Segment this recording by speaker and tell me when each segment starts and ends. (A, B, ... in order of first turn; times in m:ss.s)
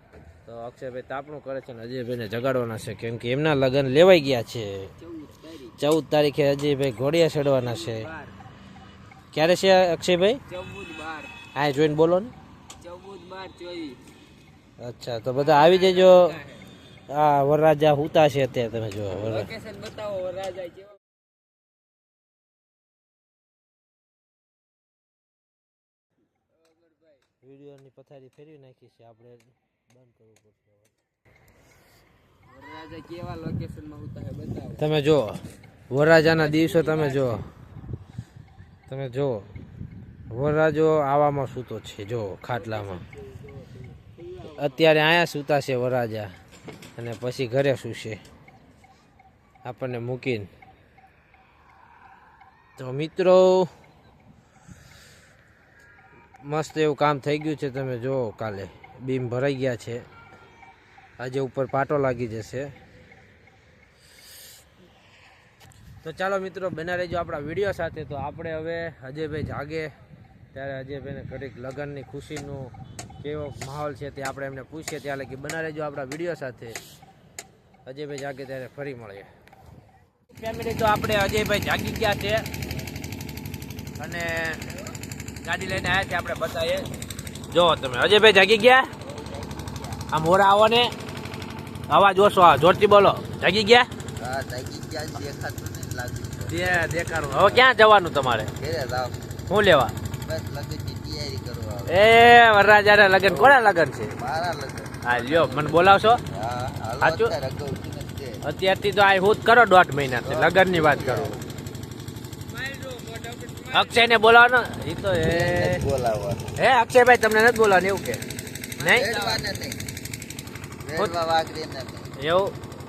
0:00.4-0:04.9 A
0:05.0-0:05.7 B
0:05.8-0:08.1 A
0:07.6-0:08.3 B
0:09.3-0:10.4 A
0:10.5-0:11.3 B
0:11.5-0:12.3 A
0:12.8-0:14.0 B
0:14.8-0:16.4 A
0:15.4-0:16.5 B
0:17.1-0:19.5 A
0:19.2-0:20.9 B
0:27.4-0:30.9 A
0:32.5-0:34.9 B
0:34.8-0:37.5 A
0:36.3-0:37.4 B
0:38.9-0:39.5 A
0:40.3-0:43.0 A
0:42.5-0:44.9 B
0:44.6-0:46.3 A
0:47.0-0:48.2 A
0:49.6-0:50.5 A
0:52.8-0:53.7 A
0:56.4-1:00.0 A
1:01.2-1:02.7 A
1:06.0-1:09.9 A
1:10.5-1:16.8 A
1:17.8-1:19.3 A
1:20.3-1:22.4 A
1:24.0-1:24.6 A
1:25.4-1:26.8 A
1:27.5-1:28.9 A
1:30.1-1:30.9 A
1:31.9-1:33.9 A
1:34.2-1:37.5 C
1:36.5-1:38.5 A
1:38.6-1:39.2 C
1:39.5-1:40.0 A
1:40.2-1:41.9 C
1:41.9-1:44.1 A
1:43.3-1:43.6 C
1:44.2-1:48.4 C
1:45.0-1:46.2 A
1:47.0-1:47.3 A
1:48.4-1:51.4 A
1:50.2-1:51.4 C
1:52.5-1:53.9 B
1:53.7-1:55.8 A
1:55.3-1:56.5 C
1:56.6-1:58.2 A
1:58.8-1:59.4 A
1:58.8-1:59.8 C
2:00.8-2:02.1 C
2:02.2-2:02.6 A